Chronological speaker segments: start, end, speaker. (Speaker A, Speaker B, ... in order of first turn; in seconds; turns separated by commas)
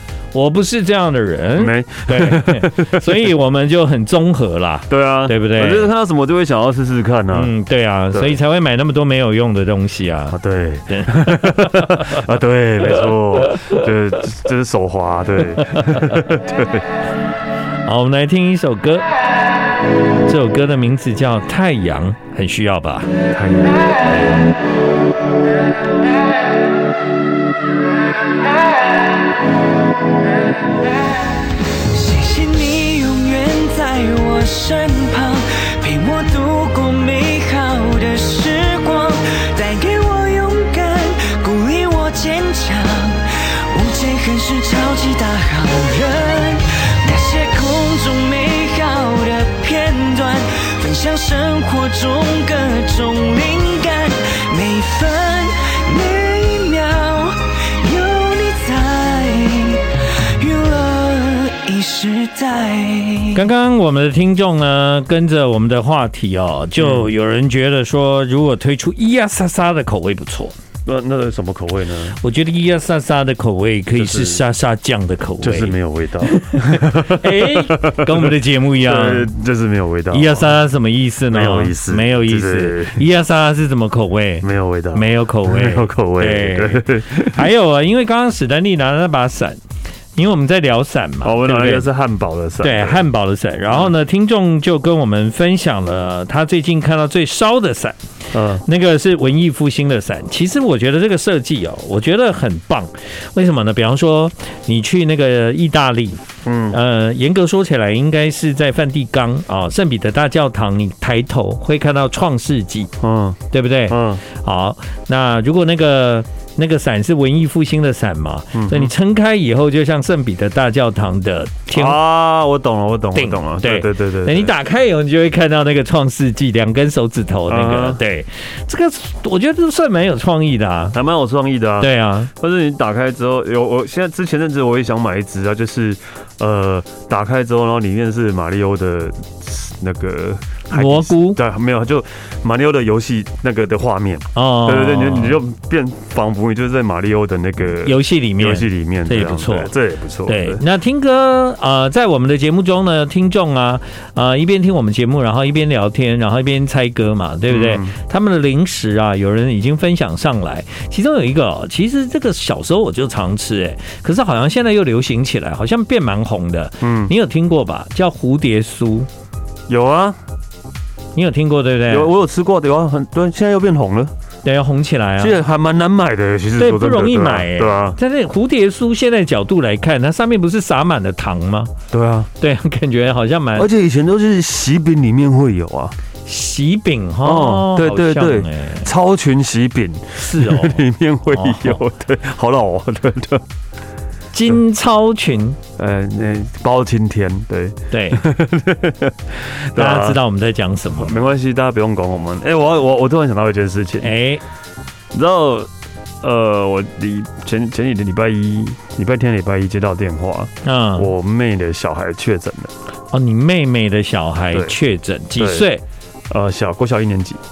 Speaker A: 0.3-5.9, Speaker B: 1.6-3.3, Speaker B: 4.9-7.5, Speaker A: 7.3-10.4, Speaker B: 8.1-8.4, Speaker B: 10.3-16.8, Speaker A: 10.9-12.2, Speaker A: 17.9-19.1, Speaker A: 20.2-23.1, Speaker B: 23.3-24.0, Speaker C: 31.9-63.4, Speaker A: 63.3-70.5, Speaker B: 66.8-67.1, Speaker B: 70.8-72.2, Speaker A: 72.2-79.3, Speaker B: 73.9-74.4, Speaker B: 75.4-80.5, Speaker A: 80.1-89.6, Speaker B: 81.3-83.0, Speaker B: 84.4-87.5, Speaker A: 90.2-91.9, Speaker B: 91.2-93.1, Speaker A: 92.6-98.0, Speaker B: 98.3-98.6, Speaker A: 98.6-112.9, Speaker B: 106.4-106.8, Speaker B: 113.0-114.2, Speaker A: 113.5-122.0, Speaker B: 118.5-118.9, Speaker B: 121.7-124.5, Speaker A: 123.1-130.9, Speaker B: 127.5-128.0, Speaker B: 130.9-150.6, Speaker A: 131.8-132.3, Speaker A: 140.7-141.4, Speaker A: 144.3-145.4, Speaker A: 147.8-149.7, Speaker A: 150.2-169.1, Speaker B: 157.5-157.9, Speaker B: 166.8-167.1, Speaker B: 169.7-170.2, Speaker A: 171.1-172.1, Speaker B: 171.9-174.1, Speaker A: 174.4-175.4, Speaker B: 175.2-178.0, Speaker A: 176.6-181.7, Speaker B: 181.9-182.3, Speaker A: 182.4-183.7, Speaker B: 183.6-185.9, Speaker A: 186.2-188.9, Speaker B: 187.2-193.4, Speaker A: 190.2-191.8, Speaker A: 194.3-195.6, Speaker B: 195.8-200.2, Speaker A: 197.9-198.2, Speaker A: 199.7-201.2, Speaker B: 200.9-204.1, Speaker A: 204.0-204.4, Speaker B: 205.1-205.7, Speaker B: 206.2-212.7, Speaker A: 210.6-211.1, Speaker A: 213.1-215.8, Speaker B: 214.5-214.8, Speaker B: 215.4-215.7, Speaker B: 216.3-217.4